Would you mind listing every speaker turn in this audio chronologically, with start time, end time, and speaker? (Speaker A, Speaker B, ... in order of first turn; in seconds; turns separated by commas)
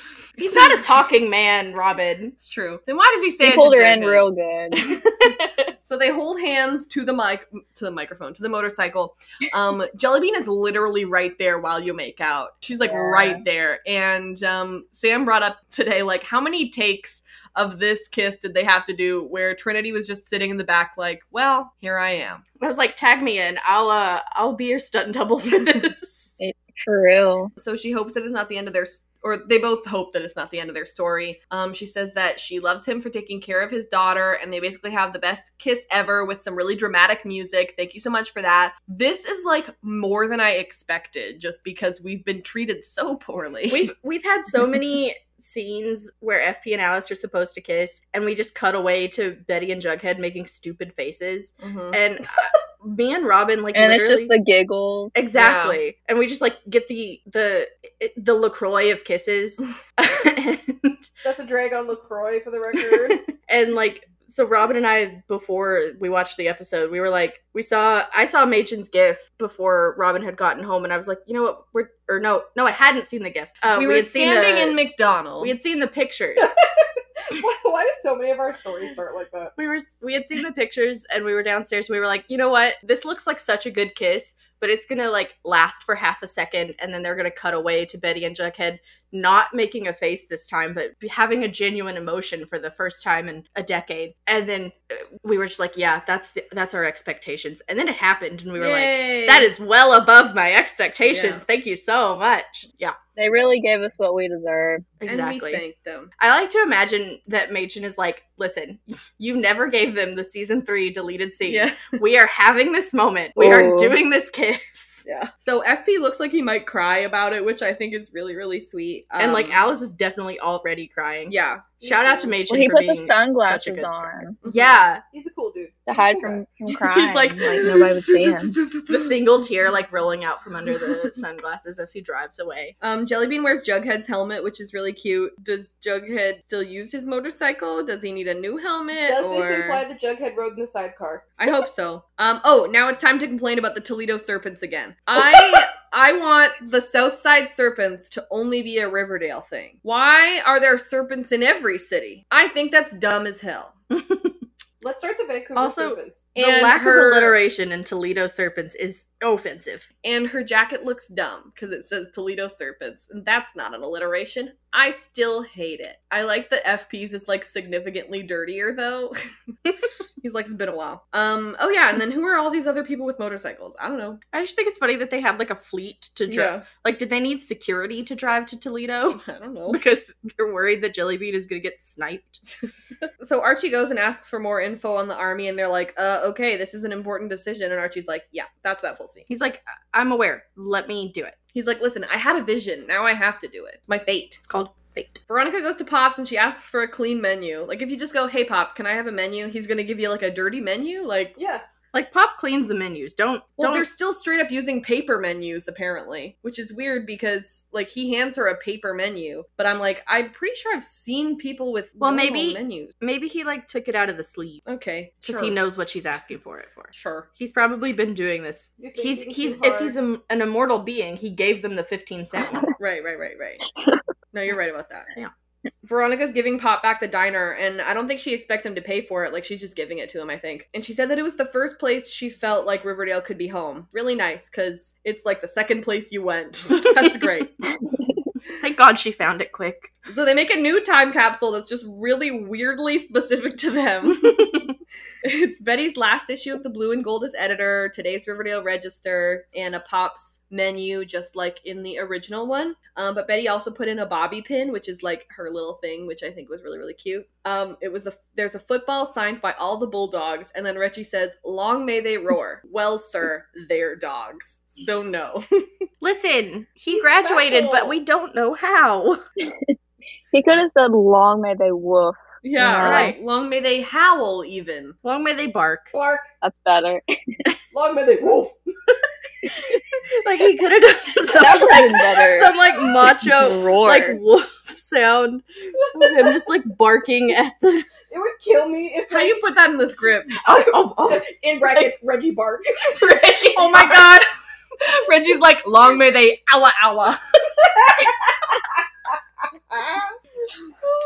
Speaker A: 0.4-0.8, Speaker B: 0.4-2.3, Speaker A: 2.4-4.2, Speaker C: 3.4-4.9, Speaker B: 4.7-5.7, Speaker A: 5.8-22.4, Speaker C: 12.8-13.4, Speaker B: 22.6-26.4, Speaker C: 26.4-27.5, Speaker A: 27.6-43.9, Speaker B: 43.7-54.3, Speaker A: 51.6-52.0, Speaker C: 53.7-55.1, Speaker B: 55.1-61.0, Speaker A: 55.3-55.8, Speaker D: 61.2-63.2, Speaker B: 62.9-74.8, Speaker A: 73.7-75.7, Speaker B: 75.4-76.5, Speaker D: 76.4-79.5, Speaker B: 79.5-103.0, Speaker A: 98.5-99.5, Speaker A: 101.0-101.4, Speaker C: 103.2-104.9, Speaker B: 105.0-105.6, Speaker A: 105.0-106.1, Speaker B: 106.2-115.0, Speaker A: 111.5-112.0, Speaker C: 113.4-114.0, Speaker D: 115.0-115.3, Speaker A: 115.4-119.6, Speaker B: 119.2-125.0, Speaker A: 121.3-121.7, Speaker D: 121.8-122.3, Speaker C: 122.5-124.3, Speaker A: 124.4-124.8, Speaker D: 125.1-126.4, Speaker C: 125.9-128.6, Speaker A: 126.7-129.2, Speaker B: 128.9-132.7, Speaker A: 132.8-139.8, Speaker D: 139.0-141.3, Speaker A: 141.4-153.7, Speaker B: 153.9-154.4, Speaker D: 154.8-156.3, Speaker B: 155.6-159.8, Speaker A: 156.3-157.4, Speaker A: 160.0-169.2, Speaker A: 170.2-174.2, Speaker B: 174.3-182.4, Speaker A: 176.3-176.7, Speaker A: 179.1-179.8, Speaker A: 183.2-189.3, Speaker B: 189.3-191.3, Speaker A: 191.5-194.4, Speaker B: 194.4-195.2, Speaker A: 195.3-201.3, Speaker D: 201.3-201.6, Speaker B: 201.9-203.9, Speaker A: 203.6-212.9, Speaker B: 212.0-214.6, Speaker A: 214.7-215.6, Speaker B: 215.2-222.7, Speaker A: 216.9-217.3, Speaker D: 218.8-219.9, Speaker A: 222.8-223.6, Speaker A: 224.3-225.1, Speaker A: 225.8-237.5, Speaker B: 237.0-237.3, Speaker B: 238.6-239.9, Speaker A: 240.1-244.7, Speaker B: 244.2-244.7, Speaker A: 245.2-265.6, Speaker B: 266.0-269.2, Speaker D: 266.9-268.0, Speaker C: 270.3-273.1, Speaker A: 272.4-274.9, Speaker B: 272.6-273.2, Speaker B: 275.0-275.9, Speaker D: 275.9-276.2, Speaker C: 276.4-277.0, Speaker D: 277.7-278.6, Speaker B: 280.1-287.9, Speaker C: 281.2-284.2, Speaker D: 285.8-286.3, Speaker D: 288.1-289.4, Speaker A: 289.1-290.4, Speaker B: 290.4-291.9, Speaker D: 290.5-293.8, Speaker B: 293.5-293.9, Speaker A: 293.5-297.2, Speaker D: 297.8-298.5